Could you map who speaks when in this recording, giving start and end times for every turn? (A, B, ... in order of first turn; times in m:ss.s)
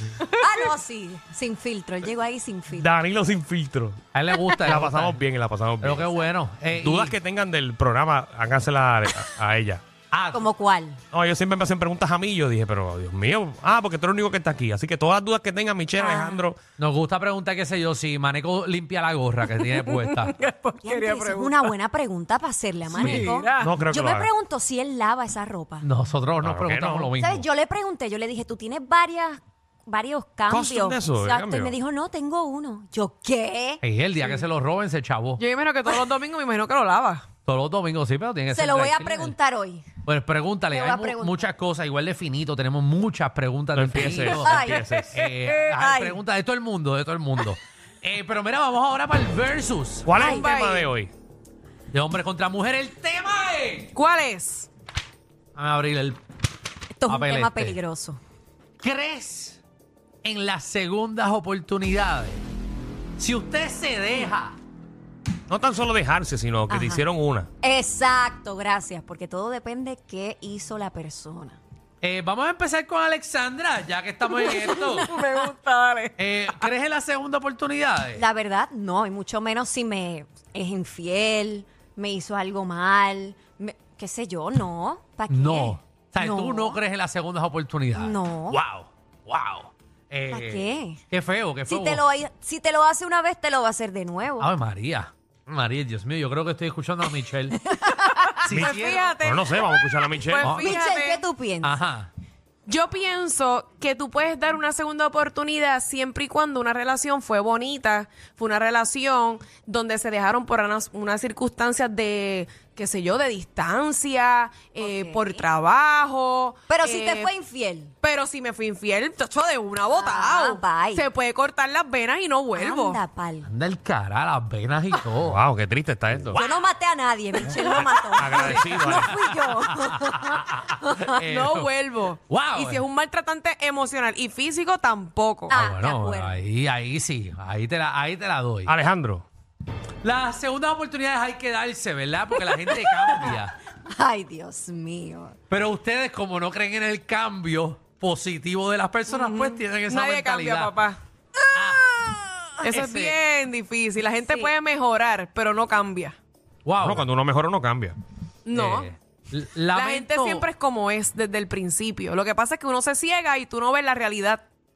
0:00.4-0:02.9 A
0:02.7-0:04.0 B
0:04.1-0:05.2 C
0:04.7-0:06.1 B
0:05.8-0:07.2 C
0:06.7-0:09.8 B
0:10.1-0:10.4 C
0:10.3-0:11.0 A
0:11.1-0:16.6 B
0:16.0-0:16.4 A
0:16.8-0:20.4 C
0:19.6-0:21.7 D
0:20.8-0:25.9 A
0:22.9-0:23.7 D
0:23.0-0:23.3 C
0:23.6-0:24.3 B
0:25.8-0:27.5 C
0:26.4-0:27.1 B
0:27.2-0:33.8 A
0:30.5-0:31.8 B
0:33.8-0:35.4 C
0:35.4-0:37.3 D
0:37.5-0:39.4 C
0:38.5-0:39.9 A
0:40.0-0:44.6 C
0:40.7-0:41.4 A
0:43.7-0:45.2 B
0:44.3-0:46.2 A
0:44.7-0:45.1 D
0:45.2-0:50.1 C
0:50.0-0:51.1 B
0:50.2-0:50.5 A
0:50.2-0:50.9 D
0:51.9-0:53.9 C
0:53.9-0:54.7 D
0:55.6-0:56.2 C
0:57.0-0:58.2 A
0:57.1-0:57.8 C
0:58.8-0:59.6 C
1:00.2-1:02.4 C
1:03.2-1:04.6 C
1:05.5-1:07.5 B
1:06.7-1:07.1 A
1:07.6-1:11.6 A
1:12.0-1:15.2 C
1:14.3-1:16.2 D
1:16.2-1:18.3 C
1:18.2-1:26.8 A
1:25.3-1:32.0 C
1:28.0-1:28.6 A
1:30.3-1:31.0 A
1:31.7-1:34.5 A
1:34.4-1:37.6 C
1:37.7-1:38.5 A
1:38.1-1:41.2 D
1:38.4-1:39.2 C
1:38.5-1:40.6 B
1:40.4-1:40.8 C
1:40.6-1:41.8 A
1:41.6-1:42.1 C
1:42.7-1:57.3 D
1:54.8-1:55.4 A
1:56.7-1:57.9 A
1:58.0-2:03.0 D
1:59.9-2:01.1 A
2:02.6-2:03.5 A
2:03.5-2:05.4 C
2:05.2-2:06.4 B
2:06.2-2:06.6 C
2:06.4-2:11.1 A
2:07.4-2:11.7 C
2:08.2-2:09.1 B
2:11.3-2:15.6 D
2:12.3-2:12.8 C
2:15.5-2:16.4 A
2:15.5-2:18.8 C
2:18.7-2:19.3 B
2:20.0-2:23.5 C
2:23.0-2:25.4 A
2:25.5-2:30.8 C
2:29.1-2:31.0 D
2:31.6-2:31.9 C
2:32.6-2:36.2 D
2:32.7-2:33.1 C
2:34.2-2:34.5 A
2:36.7-2:37.0 C
2:36.8-2:38.0 B
2:38.5-2:38.9 D
2:38.5-2:40.5 C
2:39.7-2:44.4 D